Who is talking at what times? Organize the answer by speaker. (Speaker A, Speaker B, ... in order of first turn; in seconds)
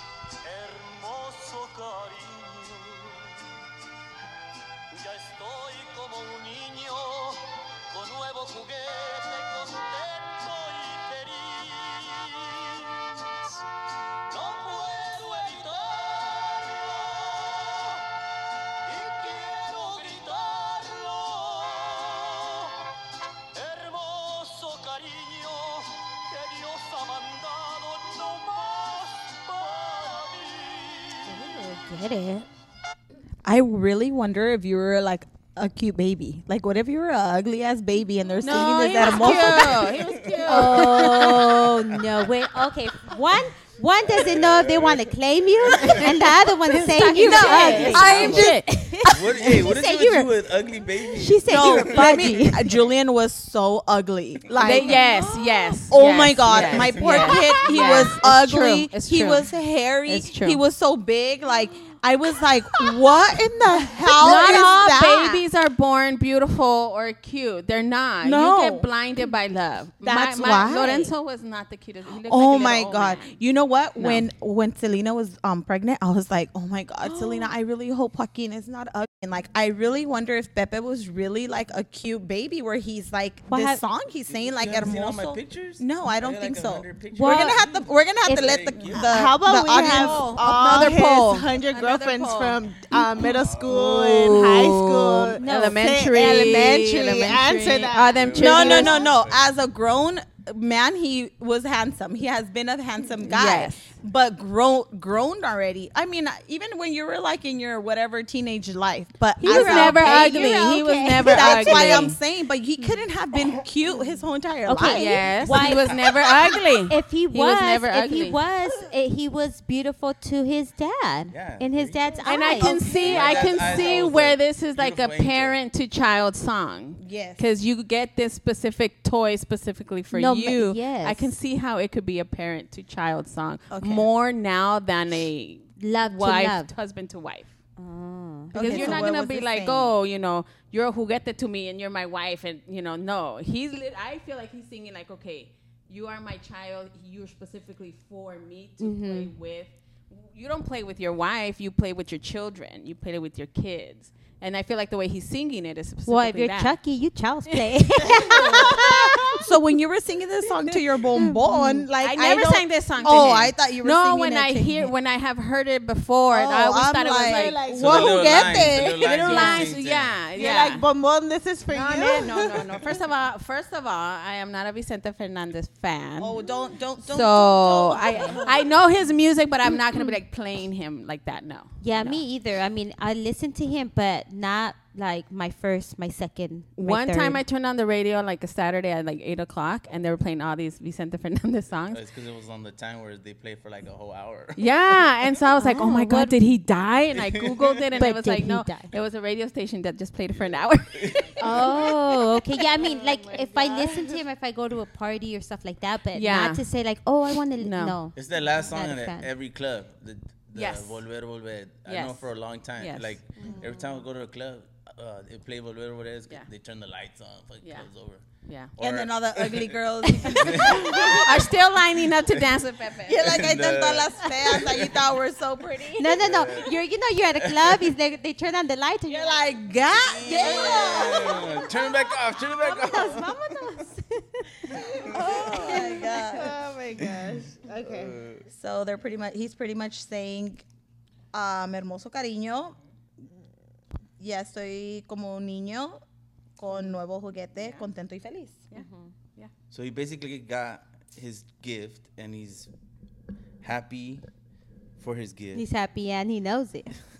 Speaker A: 0.5-3.4, 4.9-13.6, 14.3-18.1, 18.9-22.8, 23.5-31.8
Speaker B: 31.3-32.5, 39.0-39.6, 40.5-50.3, 51.2-52.8, 54.8-55.8, 57.0-58.1, 64.1-64.8, 77.0-77.5, 83.5-83.8, 87.1-87.6, 88.2-89.1, 95.4-95.8, 109.4-112.1, 114.7-116.2, 116.9-122.8, 130.1-131.3, 135.8-136.7, 137.8-139.0, 148.8-149.3, 156.1-159.4, 161.2-161.9, 169.3-169.7, 181.8-187.4, 195.6-196.4, 198.0-198.9, 201.4-209.3, 213.4-213.9, 226.0-229.5, 230.2-231.9, 232.6-236.2, 248.7-249.1, 255.5-257.0
Speaker C: 33.4-40.0, 47.0-48.7, 51.5-55.0, 55.9-65.4, 68.2-68.9, 70.0-71.1, 72.2-90.5, 98.3-115.8, 122.4-123.8, 127.0-127.4, 133.7-134.1, 138.5-139.9, 159.4-164.9, 166.3-169.5, 171.8-172.1, 176.2-178.5, 218.8-221.3, 223.1-226.2, 229.1-231.6, 235.1-236.6, 238.5-240.6, 241.3-242.8, 244.2-246.0, 246.6-248.7
Speaker D: 38.4-41.5, 46.7-49.1, 54.6-59.5, 60.1-60.6, 64.2-73.4, 74.0-74.3, 89.9-93.0, 93.7-99.0, 103.2-103.9, 109.5-112.2, 114.8-118.4, 122.2-137.5, 138.6-156.8, 157.5-157.8, 162.0-167.6, 169.0-170.8, 171.7-176.4, 177.0-182.2, 186.8-192.0, 194.6-202.0, 203.0-203.6, 206.1-206.7, 207.6-208.0, 210.6-211.0, 211.9-213.2, 218.5-218.8, 220.1-223.3, 248.7-249.5
Speaker E: 39.9-42.3, 44.0-46.5, 48.1-52.4, 84.3-89.2, 93.3-93.8, 98.1-99.5, 121.3-122.2, 122.9-125.6, 167.8-170.2, 191.9-194.7, 197.2-197.8, 200.9-201.4, 208.2-218.2, 218.8-221.3, 223.2-225.0, 226.1-227.9, 230.1-233.8, 235.1-235.8, 237.0-237.3, 237.8-238.4, 249.7-252.7, 253.6-254.2, 255.0-255.7
Speaker F: 89.0-99.0, 158.2-158.9, 167.3-169.1, 170.4-172.9, 203.4-204.0, 234.8-238.2